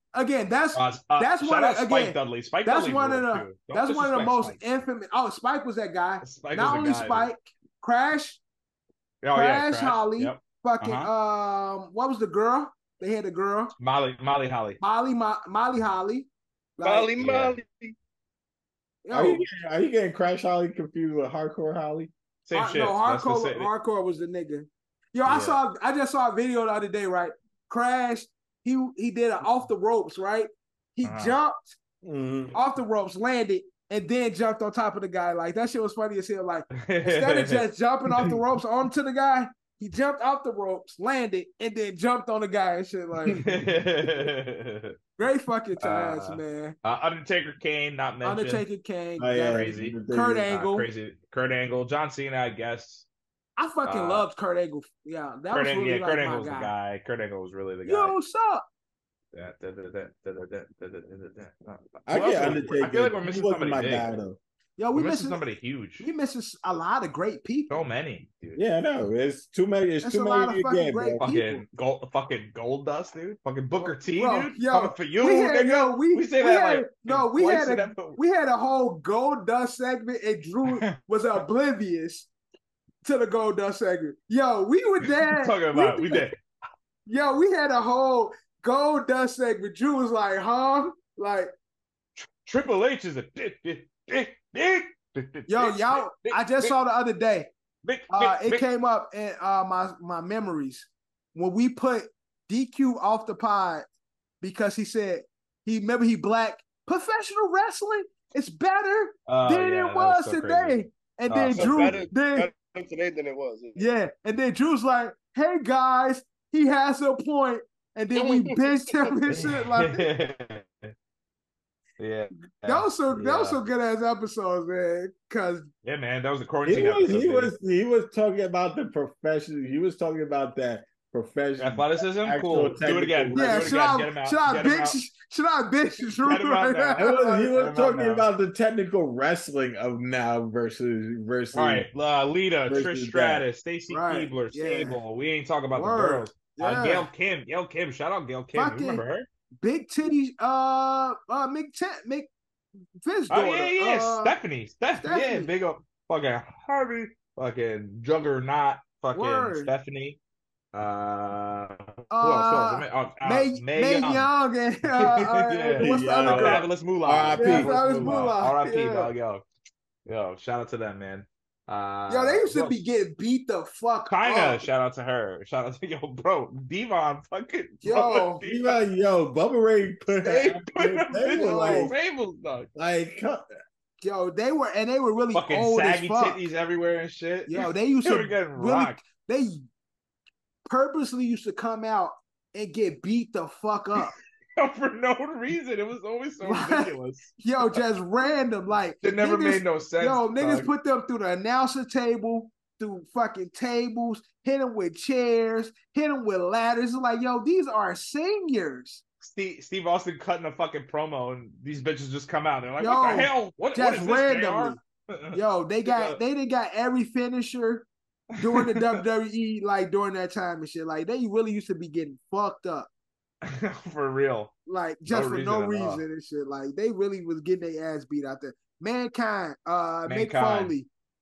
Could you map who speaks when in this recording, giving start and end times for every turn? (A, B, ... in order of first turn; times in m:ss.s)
0:00.1-0:08.4 A
0:00.8-0:04.6 B
0:06.2-0:07.3 B
0:09.2-0:11.1 B
0:09.3-0:13.7 A
0:13.8-0:14.8 B
0:14.8-0:17.1 A
0:16.8-0:18.0 C
0:17.2-0:17.6 B
0:19.0-0:19.4 A
0:19.1-0:22.1 D
0:22.4-0:23.7 B
0:22.5-0:31.8 A
0:25.3-0:25.6 B
0:31.0-0:31.4 B
0:32.0-0:32.6 D
0:32.5-0:43.4 A
0:36.8-0:37.6 B
0:43.4-0:44.9 B
0:45.2-0:46.8 A
0:45.8-0:48.6 B
0:48.2-0:50.9 A
0:49.2-0:50.5 D
0:49.5-0:50.0 B
0:50.5-0:53.1 B
0:53.6-0:56.7 A
0:53.8-0:54.3 B
0:55.5-0:58.2 B
0:57.9-0:58.6 A
0:59.3-1:04.2 B
1:02.1-1:04.4 D
1:04.8-1:05.4 A
1:05.0-1:06.1 B
1:06.0-1:07.8 A
1:07.7-1:08.6 B
1:08.6-1:11.3 D
1:10.0-1:11.6 A
1:11.2-1:18.2 B
1:13.8-1:22.3 A
1:20.7-1:21.0 B
1:23.0-1:26.3 A
1:25.2-1:26.4 B
1:27.1-1:31.5 A
1:32.2-1:36.7 B
1:35.5-1:37.5 A
1:37.8-1:38.6 B
1:38.1-1:43.9 A
1:44.4-1:52.5 A
1:49.3-1:52.0 B
1:51.5-1:53.9 C
1:53.8-2:00.0 A
1:58.2-1:58.6 C
1:59.3-2:00.7 B
2:02.0-2:03.6 B
2:02.6-2:05.7 A
2:05.8-2:07.5 B
2:06.6-2:13.9 D
2:11.6-2:15.0 B
2:13.3-2:17.5 A
2:16.2-2:18.3 B
2:17.0-2:21.9 D
2:21.5-2:29.3 B
2:22.7-2:23.4 D
2:23.9-2:25.0 A
2:25.7-2:27.1 A
2:28.5-2:29.0 A
2:29.6-2:32.3 A
2:33.0-2:34.4 A
2:33.3-2:40.2 B
2:35.0-2:35.5 A
2:39.1-2:39.7 A
2:40.7-2:44.3 B
2:42.1-2:46.6 A
2:44.9-2:49.4 B
2:45.8-2:48.3 D
2:47.4-2:49.1 A
2:50.1-2:52.8 B
2:52.1-2:54.6 A
2:54.1-2:58.8 B
2:57.8-2:58.4 A
2:58.4-3:02.0 D
3:00.2-3:02.7 B
3:01.4-3:01.9 A
3:02.8-3:03.4 D
3:04.0-3:06.4 A
3:05.3-3:09.0 B
3:07.5-3:09.6 A
3:10.7-3:14.2 A
3:14.6-3:17.8 B
3:16.4-3:29.0 A
3:19.0-3:20.7 B
3:29.2-3:36.2 B
3:32.8-3:34.8 A
3:35.3-3:37.9 A
3:38.4-3:39.0 B
3:38.4-3:42.9 A
3:43.4-3:44.6 B
3:44.7-3:50.9 A
3:45.1-3:46.0 B
3:50.1-3:50.8 B